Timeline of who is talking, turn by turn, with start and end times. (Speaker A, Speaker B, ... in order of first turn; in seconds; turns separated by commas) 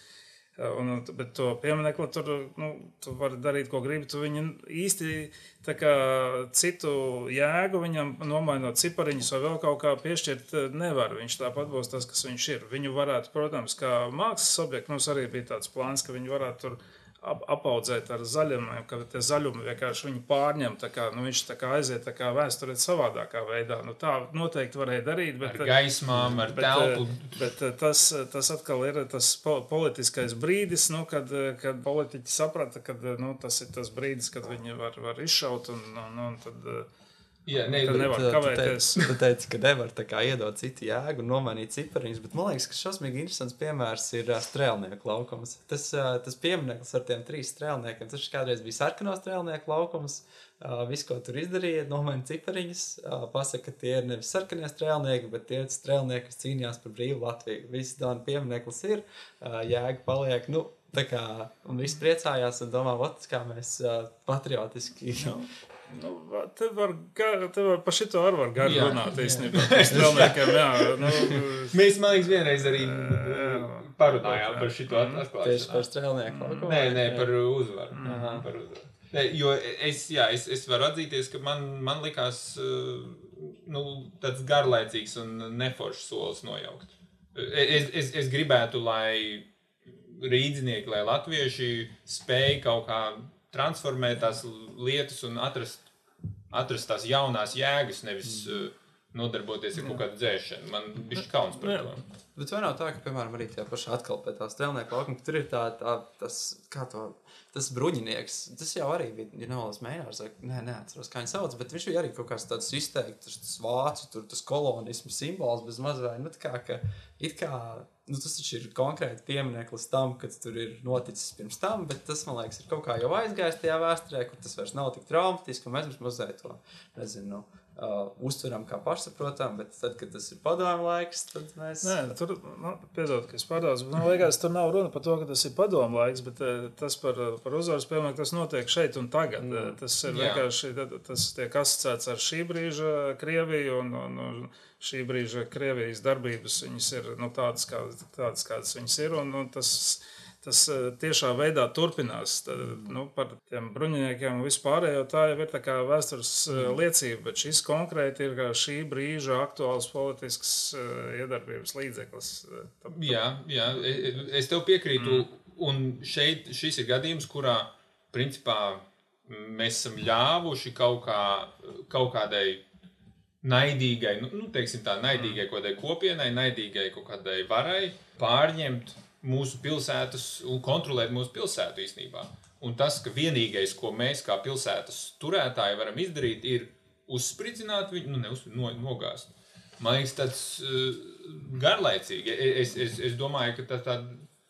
Speaker A: 0.6-25.8, Speaker B: 25.4-27.3, Speaker A: 26.5-36.9, Speaker B: 37.5-38.1, Speaker C: 37.6-65.5, Speaker A: 37.6-39.0, Speaker A: 65.2-71.8, Speaker B: 68.6-75.9, Speaker C: 69.9-70.3, Speaker A: 72.4-75.2, Speaker C: 75.4-77.3, Speaker A: 76.3-76.7, Speaker B: 76.6-89.5, Speaker A: 78.0-78.4, Speaker C: 78.0-78.4, Speaker B: 90.0-95.8, Speaker B: 96.5-102.0, Speaker A: 99.8-100.0, Speaker A: 101.1-101.9, Speaker C: 102.3-132.0, Speaker A: 131.8-163.2, Speaker B: 140.1-140.4, Speaker B: 162.9-172.6, Speaker B: 173.4-194.2